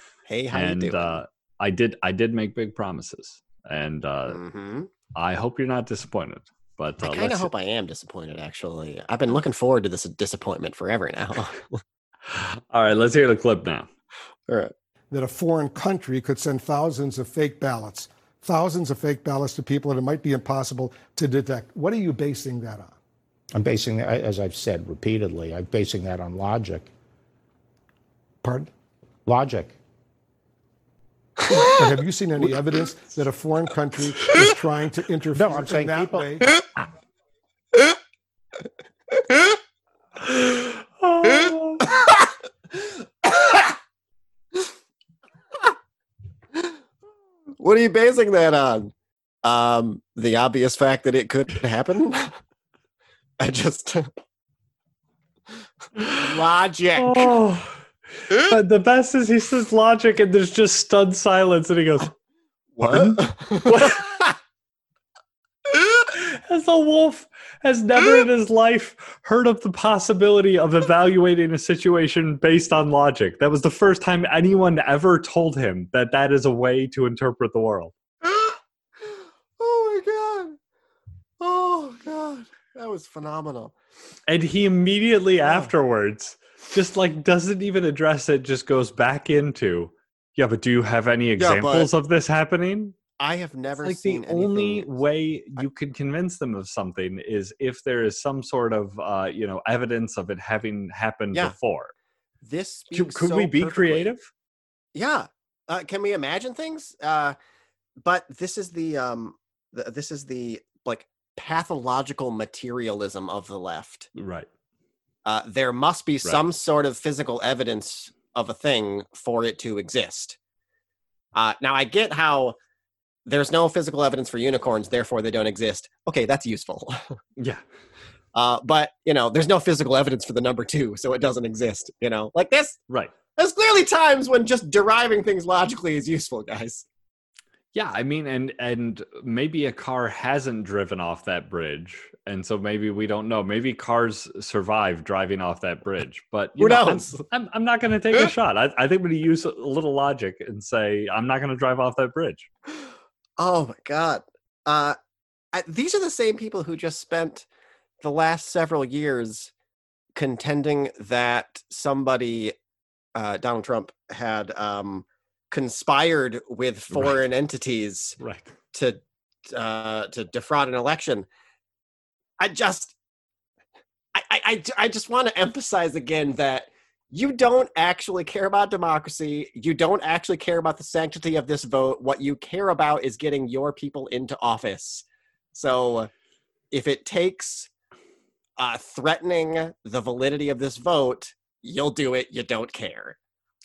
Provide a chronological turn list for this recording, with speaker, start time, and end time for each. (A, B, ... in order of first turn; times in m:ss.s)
0:00.3-0:01.2 A
0:00.5-0:04.4 B
0:04.3-0:04.9 A
0:05.1-0:07.5 B
0:07.0-0:11.6 A
0:12.3-0:13.9 B
0:14.5-0:14.7 A
0:15.1-0:23.0 C
0:23.5-0:26.9 D
0:28.4-0:28.7 C
0:29.2-0:29.7 D
0:31.5-0:36.5 C
0:35.3-0:36.3 D
0:40.2-0:41.9 B
0:43.2-0:43.6 A
0:47.6-0:48.9 A
0:49.4-0:52.3 A
0:53.4-0:54.0 A
0:56.0-0:57.3 A
0:57.0-1:02.1 B
1:02.8-1:04.3 A
1:02.9-1:04.0 B
1:06.0-1:17.9 B
1:18.3-1:18.6 A
1:19.6-1:20.6 A
1:21.4-1:23.7 A
1:24.3-1:32.9 B
1:25.4-1:25.7 A
1:31.4-1:31.9 A
1:33.2-1:34.9 A
1:33.8-1:41.9 B
1:42.4-1:44.1 A
1:42.9-1:44.2 B
1:44.9-1:47.4 A
1:48.0-1:54.1 A
1:54.1-1:54.5 B
1:55.2-2:00.4 A
2:01.3-2:02.6 A
2:03.2-2:07.0 A
2:08.3-2:12.8 A
2:12.9-2:13.1 B
2:13.4-2:16.8 A
2:17.7-2:32.5 B
2:26.6-2:27.2 A
2:33.4-2:35.0 A
2:35.5-2:37.5 A
2:38.0-2:39.5 A
2:40.1-2:42.5 A
2:43.2-2:48.2 A
2:46.9-2:47.2 B
2:48.2-2:48.5 B
2:48.7-2:49.0 A
2:49.5-2:51.3 A
2:52.4-2:52.9 A
2:54.1-3:06.1 A
3:06.7-3:07.7 A
3:08.6-3:13.2 A